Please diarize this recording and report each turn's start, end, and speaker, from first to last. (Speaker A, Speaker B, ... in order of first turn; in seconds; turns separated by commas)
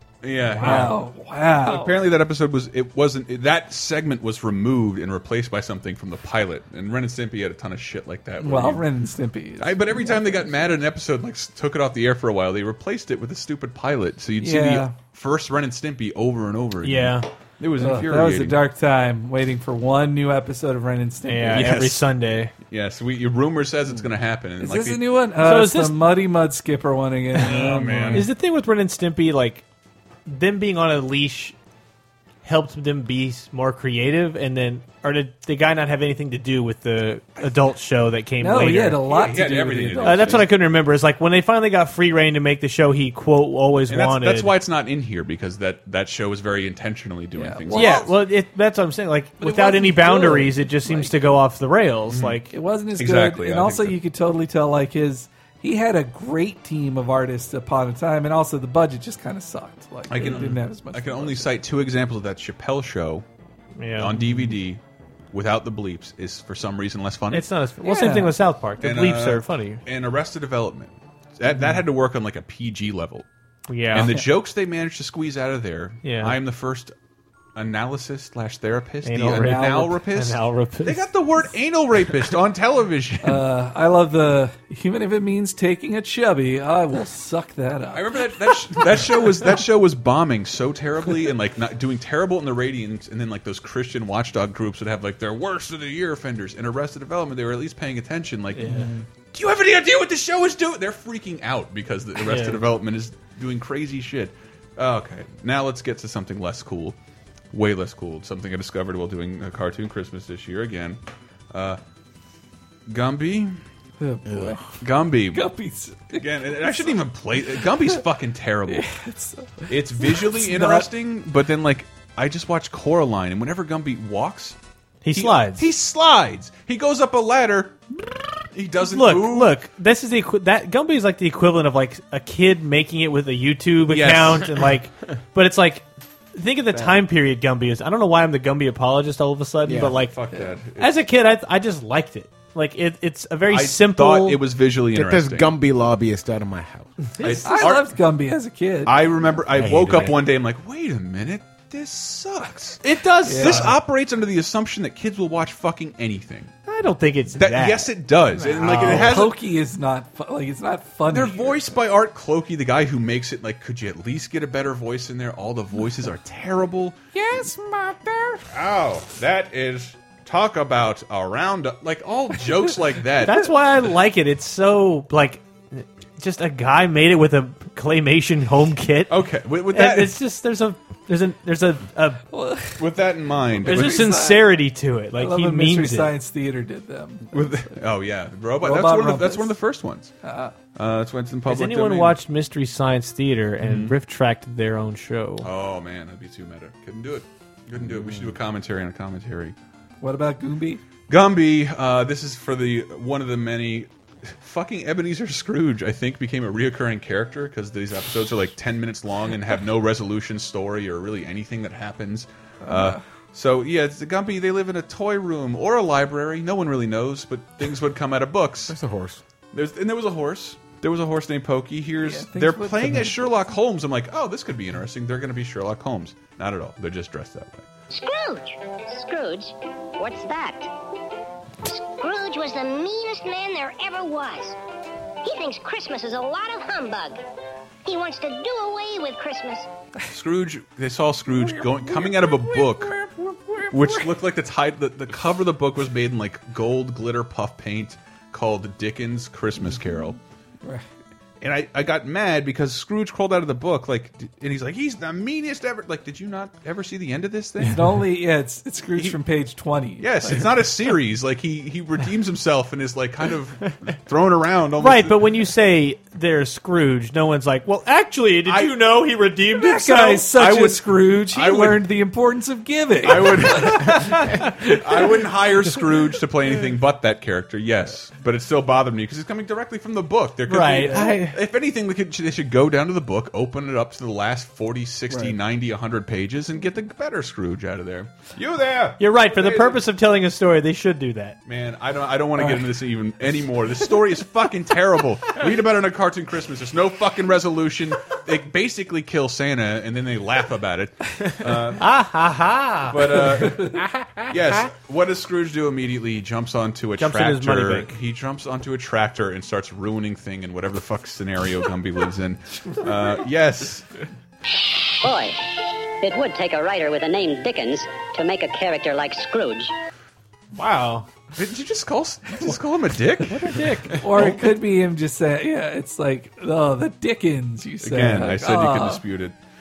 Speaker A: 0.2-0.9, Speaker B: 0.6-0.9, Speaker C: 0.6-2.0, Speaker A: 1.6-8.8, Speaker C: 8.4-10.7, Speaker A: 9.6-18.6, Speaker C: 14.4-14.9, Speaker B: 16.8-17.3, Speaker C: 17.8-21.7, Speaker B: 21.3-22.5, Speaker A: 21.5-22.1, Speaker A: 22.7-25.0, Speaker C: 24.6-28.3, Speaker B: 25.4-26.1, Speaker A: 27.4-28.3, Speaker B: 27.5-29.6, Speaker B: 30.3-31.6, Speaker B: 32.4-39.0, Speaker C: 38.4-40.5, Speaker A: 39.1-40.5, Speaker B: 40.0-44.5, Speaker A: 43.9-48.1, Speaker C: 47.4-48.1, Speaker B: 47.7-52.5, Speaker C: 49.4-51.2, Speaker A: 52.1-52.4, Speaker C: 52.5-61.6, Speaker A: 53.0-54.0, Speaker A: 60.1-63.2, Speaker B: 63.8-64.2, Speaker A: 64.0-64.8, Speaker A: 65.3-73.3, Speaker B: 67.3-69.8, Speaker B: 73.7-74.2, Speaker A: 73.9-76.9, Speaker B: 76.0-76.4, Speaker A: 77.6-83.4, Speaker B: 79.0-81.0, Speaker C: 83.2-89.5, Speaker A: 87.9-98.7, Speaker B: 98.5-98.9, Speaker C: 98.7-99.1, Speaker A: 99.3-107.0, Speaker B: 102.3-102.6, Speaker A: 107.5-111.0, Speaker A: 111.5-111.8, Speaker A: 112.9-113.6, Speaker C: 114.0-114.6, Speaker D: 114.2-114.6, Speaker A: 114.8-115.5, Speaker C: 115.3-118.0, Speaker A: 116.1-118.9, Speaker C: 118.7-120.9, Speaker A: 119.7-124.6, Speaker B: 125.0-125.7, Speaker A: 125.1-127.8, Speaker A: 128.5-129.5, Speaker B: 128.8-140.1, Speaker A: 133.9-134.6, Speaker D: 136.7-137.0, Speaker D: 139.6-140.0, Speaker A: 139.9-141.0, Speaker B: 140.8-144.4, Speaker A: 143.5-145.6, Speaker D: 144.9-146.9, Speaker A: 147.2-147.9, Speaker C: 147.4-149.0, Speaker A: 148.9-156.5, Speaker D: 149.5-150.2, Speaker B: 152.8-153.7, Speaker C: 153.3-153.8, Speaker B: 156.7-159.1, Speaker A: 157.4-159.4, Speaker C: 158.6-161.6, Speaker A: 161.1-167.0, Speaker C: 167.1-168.4, Speaker A: 168.5-173.5, Speaker B: 173.2-179.1, Speaker A: 179.1-180.1, Speaker B: 179.7-182.3, Speaker C: 182.3-182.8, Speaker A: 182.8-184.0, Speaker C: 183.6-184.5, Speaker B: 183.7-186.1, Speaker C: 185.2-187.6, Speaker A: 187.3-190.1, Speaker C: 188.6-189.6, Speaker C: 190.2-190.5, Speaker A: 190.7-192.2, Speaker B: 191.5-195.5, Speaker A: 193.6-193.9, Speaker A: 195.4-199.6, Speaker D: 197.9-198.3, Speaker C: 200.0-200.8, Speaker A: 201.1-218.8, Speaker C: 212.6-213.0, Speaker D: 218.7-219.2, Speaker A: 219.5-227.7, Speaker C: 222.0-223.5, Speaker E: 227.9-230.7, Speaker E: 231.6-234.6, Speaker E: 235.2-237.2, Speaker E: 237.9-239.7, Speaker A: 240.1-242.9, Speaker C: 241.4-244.1, Speaker A: 243.7-250.2, Speaker A: 251.4-257.8, Speaker C: 257.7-260.6, Speaker A: 260.0-265.2, Speaker B: 264.8-270.3, Speaker A: 268.4-268.7, Speaker C: 269.5-275.2, Speaker A: 270.4-271.9, Speaker A: 273.0-274.2, Speaker A: 274.8-289.8, Speaker B: 280.5-281.4, Speaker B: 289.0-291.4, Speaker A: 291.4-301.9, Speaker B: 301.8-303.6, Speaker A: 302.9-303.8, Speaker D: 303.9-304.3, Speaker A: 304.3-313.9, Speaker B: 307.0-307.9, Speaker F: 315.0-315.5, Speaker F: 316.0-319.7, Speaker B: 320.5-321.1, Speaker A: 321.4-323.5, Speaker B: 323.3-324.0, Speaker C: 324.0-329.0, Speaker A: 324.1-324.4, Speaker A: 327.8-329.4